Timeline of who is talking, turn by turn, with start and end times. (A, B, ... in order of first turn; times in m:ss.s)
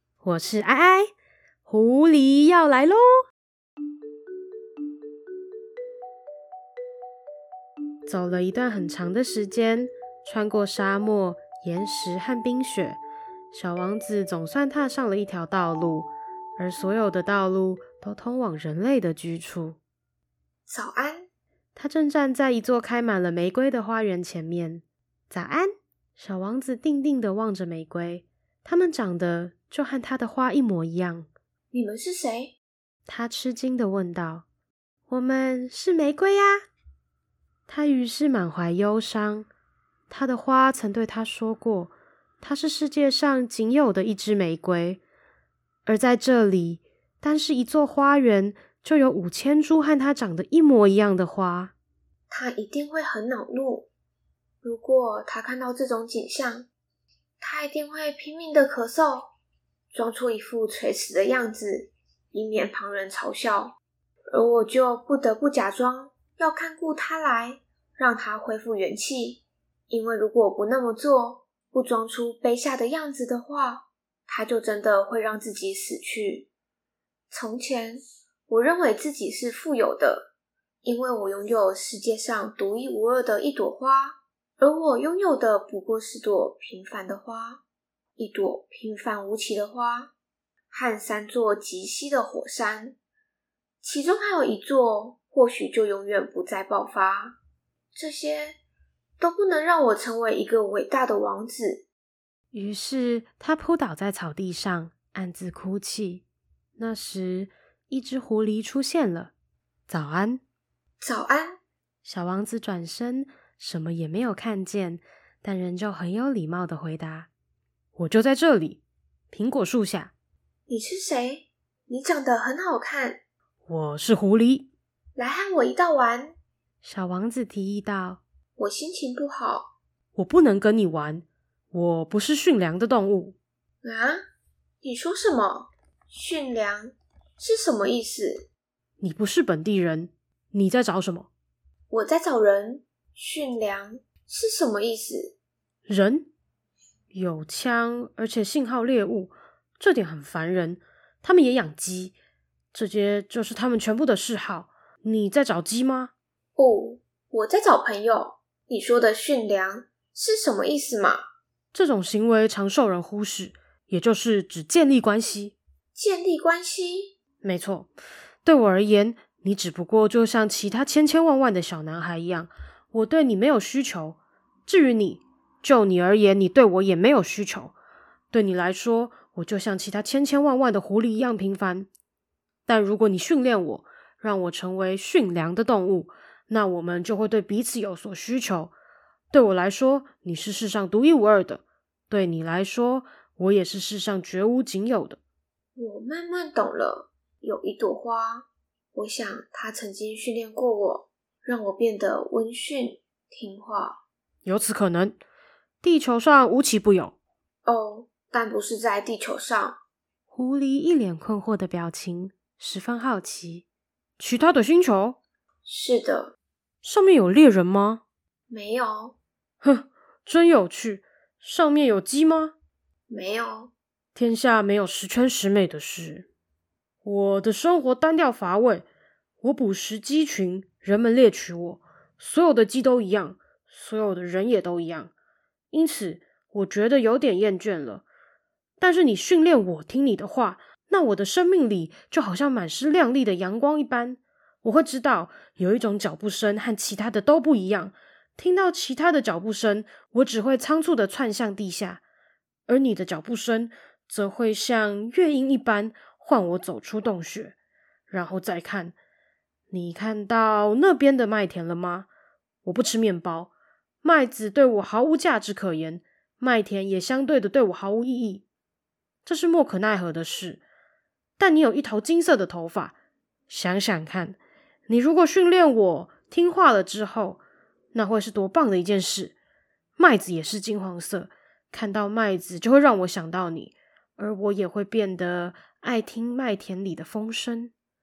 0:00.2-0:01.1 A
0:01.6-0:03.2 A
0:08.1-0:13.0 A
0:13.5-0:19.8 A
0:20.7-0:21.3 B
0:21.7-0:31.3 A
0:31.7-0:32.5 B
0:33.1-0:34.4 A
0:35.1-0:36.6 A
0:37.7-0:39.5 A
0:40.1-0:45.0 A
0:45.8-0:51.7 A
0:52.3-0:53.9 B
0:54.6-0:56.7 B
0:57.4-0:59.3 B
0:59.9-1:03.8 B
1:04.3-1:16.5 B
1:17.3-1:20.3 B
1:20.8-1:27.6 B
1:28.2-1:30.1 B
1:30.7-1:33.0 B
1:33.8-1:37.4 B
1:37.9-1:38.6 B
1:39.2-1:41.8 B
1:42.5-1:46.2 A
1:46.8-1:49.3 A
1:49.9-1:50.4 A
1:51.0-1:51.6 B
1:52.0-1:57.3 A
1:57.9-1:58.8 A
1:59.3-2:00.1 A
2:00.7-2:03.2 B
2:03.7-2:04.7 A
2:05.2-2:06.4 B
2:06.8-2:08.2 A
2:08.6-2:09.7 B
2:10.2-2:13.4 A
2:13.8-2:14.2 B
2:14.8-2:18.5 B
2:19.0-2:21.3 A
2:21.9-2:25.3 B
2:25.9-2:26.3 A
2:27.1-2:32.1 A
2:32.7-2:36.1 A
2:36.6-2:41.2 B
2:41.7-2:45.6 A
2:45.9-2:47.1 B
2:47.4-2:47.9 A
2:48.4-2:57.7 A
2:58.3-3:01.9 A
3:02.6-3:08.7 A
3:09.3-3:15.2 A
3:15.8-3:24.0 B
3:24.4-3:25.2 A
3:25.8-3:27.2 A
3:27.6-3:29.8 B
3:30.3-3:33.6 A
3:34.2-3:35.2 A
3:35.6-3:36.3 B
3:36.8-3:38.0 A
3:38.5-3:39.2 B
3:39.6-3:42.5 A
3:43.1-3:43.7 B
3:44.1-3:46.3 A
3:47.0-3:48.8 A
3:49.4-3:55.1 A
3:55.7-3:58.0 A
3:58.8-4:12.0 A
4:12.7-4:17.5 A
4:18.1-4:18.9 A
4:19.7-4:22.1 A
4:22.6-4:23.5 A
4:24.0-4:28.4 A
4:29.2-4:30.6 A
4:31.4-4:32.9 A
4:33.5-4:37.4 A
4:37.9-4:39.3 A
4:40.0-4:47.7 A